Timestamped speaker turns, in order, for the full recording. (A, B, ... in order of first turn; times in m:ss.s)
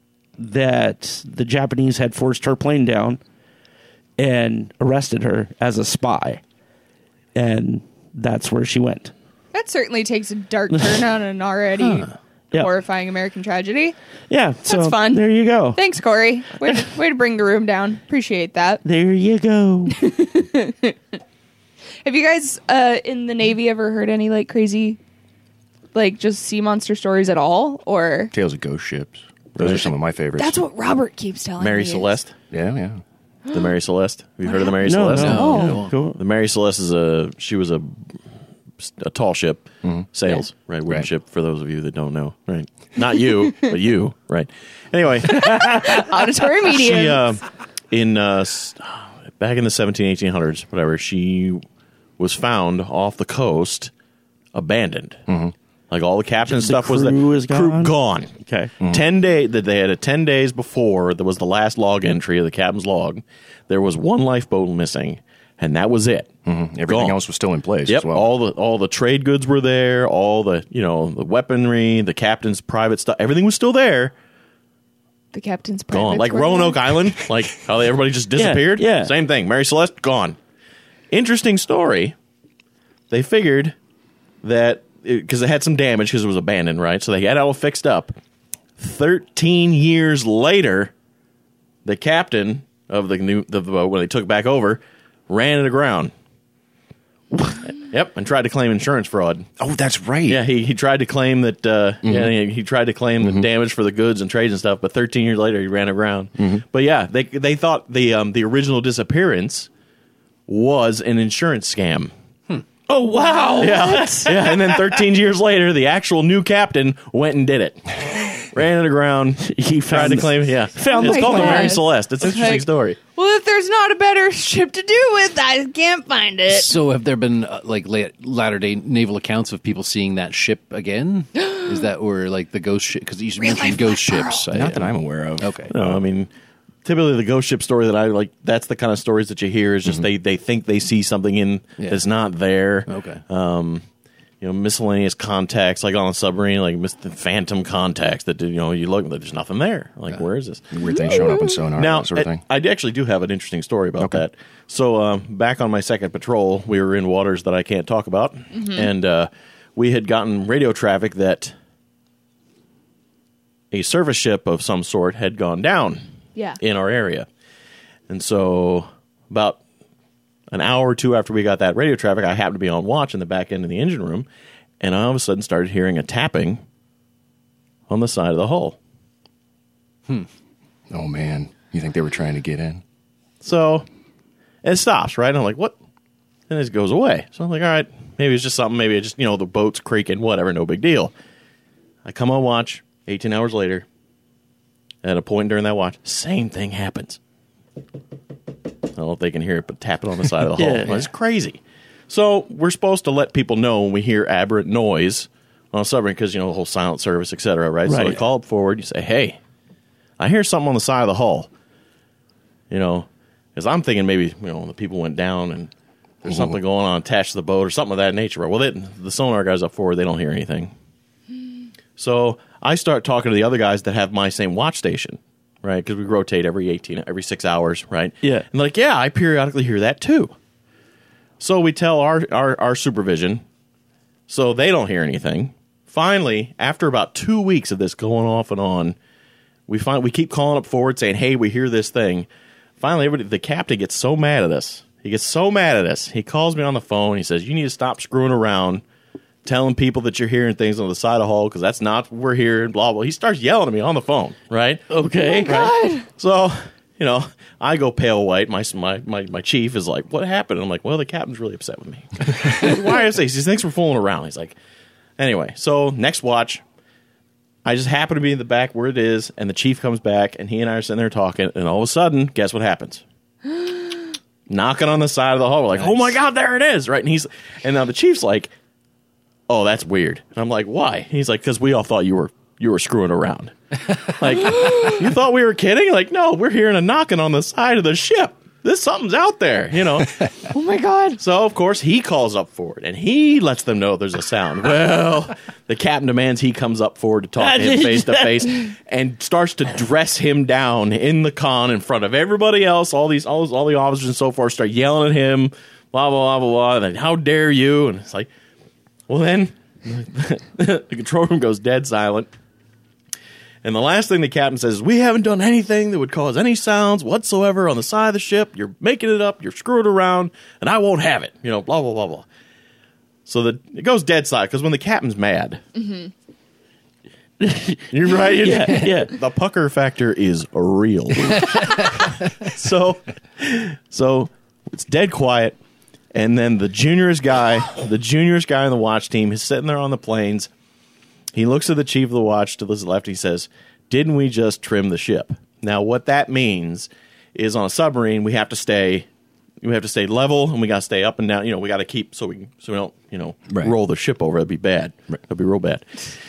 0:00.4-0:03.2 A
0:04.2-0:06.4 A
0:07.3-0:09.1 A
0:09.5-0:14.0 B
0:14.3-0:15.8 A
0:14.6-0:18.8 B
0:18.8-0:20.0 A
0:20.0-0:21.0 B
0:22.0-0:25.0 B
0:25.9-0:28.3 B
0:28.3-0:30.6 C
0:30.4-0:32.2 B
0:31.6-0:32.3 D
0:32.5-0:33.0 C
0:33.5-0:37.9 D
0:34.5-0:35.8 B
0:34.8-0:36.2 A
0:35.1-0:35.9 E
0:38.8-0:51.6 D
0:39.8-0:40.1 C
0:45.8-0:47.3 B
0:52.2-0:53.9 D
0:54.5-0:55.2 D
0:55.3-0:55.5 C
0:55.9-0:58.3 D
0:56.4-0:58.7 A
0:58.9-1:06.3 D
1:06.4-1:08.3 C
1:06.8-1:07.2 D
1:07.8-1:14.1 D
1:15.3-1:16.8 B
1:15.9-1:20.4 D
1:18.4-1:19.1 A
1:21.1-1:22.1 D
1:23.1-1:23.7 D
1:24.4-1:28.1 D
1:28.8-1:30.9 D
1:31.8-1:36.1 D
1:37.8-1:39.5 D
1:39.6-1:40.4 C
1:40.3-1:49.7 D
1:42.0-1:42.4 C
1:43.2-1:43.5 C
1:46.4-1:46.6 C
1:50.5-1:52.1 D
1:52.9-1:54.8 A
1:53.2-1:54.2 B
1:53.6-2:03.0 D
1:59.4-2:01.8 A
2:00.9-2:06.7 B
2:06.5-2:15.7 E
2:11.4-2:11.7 B
2:13.4-2:14.4 B
2:14.5-2:16.0 C
2:15.7-2:16.3 D
2:16.8-2:23.8 D
2:22.9-2:23.2 E
2:24.4-2:31.2 D
2:30.7-2:32.4 C
2:30.8-2:31.6 B
2:31.7-2:41.5 D
2:34.0-2:34.2 C
2:38.5-2:38.9 B
2:43.7-2:46.0 D
2:46.6-2:47.3 D
2:48.1-2:49.6 D
2:50.5-2:54.3 D
2:54.8-2:56.6 D
2:57.9-2:58.8 D
3:00.9-3:02.8 C
3:03.4-3:03.8 D
3:04.6-3:05.8 D
3:06.5-3:11.1 D
3:12.0-3:13.8 D
3:15.0-3:17.2 D
3:18.9-3:29.4 D
3:20.6-3:21.0 A
3:27.8-3:28.2 A
3:30.2-3:31.5 D
3:32.7-3:35.7 D
3:36.2-3:40.7 D
3:36.3-3:36.6 C
3:42.0-3:50.3 D
3:51.4-3:53.4 D
3:54.3-3:59.0 D
3:59.7-4:02.3 D
4:02.8-4:08.8 D
4:09.4-4:14.8 D
4:14.9-4:15.7 A
4:15.3-4:16.1 B
4:15.4-4:24.6 D
4:25.2-4:26.6 D
4:27.6-4:33.0 D
4:34.5-4:38.5 D
4:35.8-4:36.2 C
4:39.5-4:43.5 D
4:44.1-4:50.2 D
4:44.6-4:44.9 B
4:50.5-4:51.2 B
4:51.2-5:08.3 D
4:57.4-4:58.6 A
5:09.1-5:12.3 D
5:13.6-5:22.2 D
5:23.2-5:25.6 D
5:27.4-5:29.1 A
5:27.9-5:35.6 D
5:36.1-5:40.5 D
5:41.3-5:49.1 D
5:49.6-5:56.0 D
5:53.5-5:53.7 C